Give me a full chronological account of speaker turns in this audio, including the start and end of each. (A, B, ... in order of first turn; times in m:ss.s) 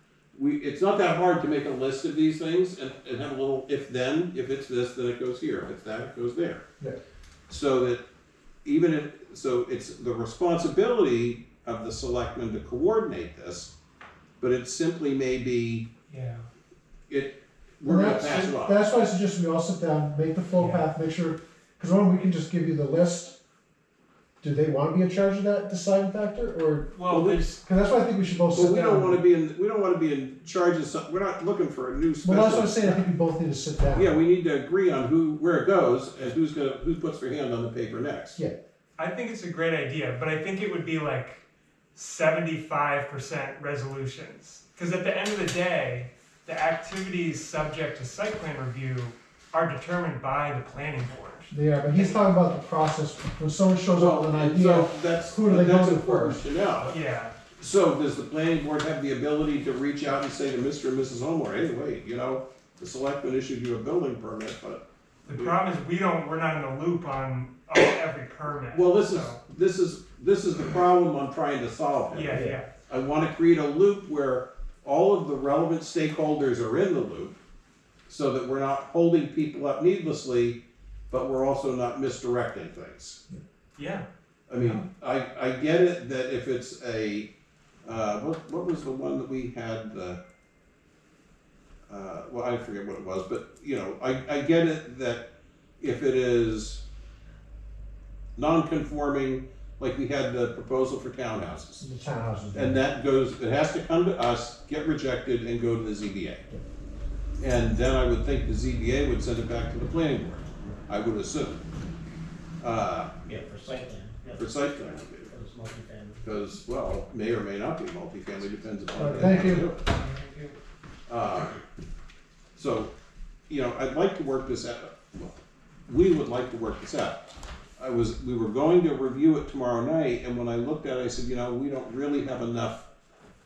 0:00.3-0:06.6 A
0:07.5-0:08.0 A
0:08.6-0:13.7 A
0:14.4-0:15.9 A
0:16.1-0:16.5 B
0:17.1-0:18.8 A
0:17.8-0:23.3 C
0:20.6-0:20.8 B
0:24.4-0:26.9 C
0:26.9-0:27.6 B
0:27.1-0:27.6 A
0:27.6-0:29.2 C
0:28.5-0:33.0 A
0:32.2-0:34.2 C
0:33.9-0:38.4 A
0:39.0-0:41.4 B
0:41.9-0:52.2 B
0:51.5-0:56.4 C
0:53.9-0:56.9 A
0:56.8-0:57.3 B
0:57.6-1:05.5 A
1:05.2-1:09.4 B
1:08.7-1:17.4 A
1:12.1-1:12.7 B
1:12.3-1:12.6 C
1:18.1-1:20.6 A
1:21.1-1:23.2 A
1:23.8-1:24.0 B
1:24.5-1:27.3 A
1:27.8-1:30.2 A
1:31.9-1:35.2 A
1:35.8-1:36.8 A
1:38.4-1:41.8 A
1:41.8-1:42.8 C
1:42.5-1:46.4 A
1:47.4-1:51.6 A
1:52.6-1:53.1 A
1:53.2-1:54.4 D
1:54.3-1:55.3 A
1:55.3-1:56.2 D
1:56.2-1:59.8 A
1:59.0-1:59.7 C
1:59.9-2:00.6 D
2:01.1-2:01.6 A
2:02.6-2:02.9 A
2:03.5-2:07.2 A
2:07.8-2:12.8 A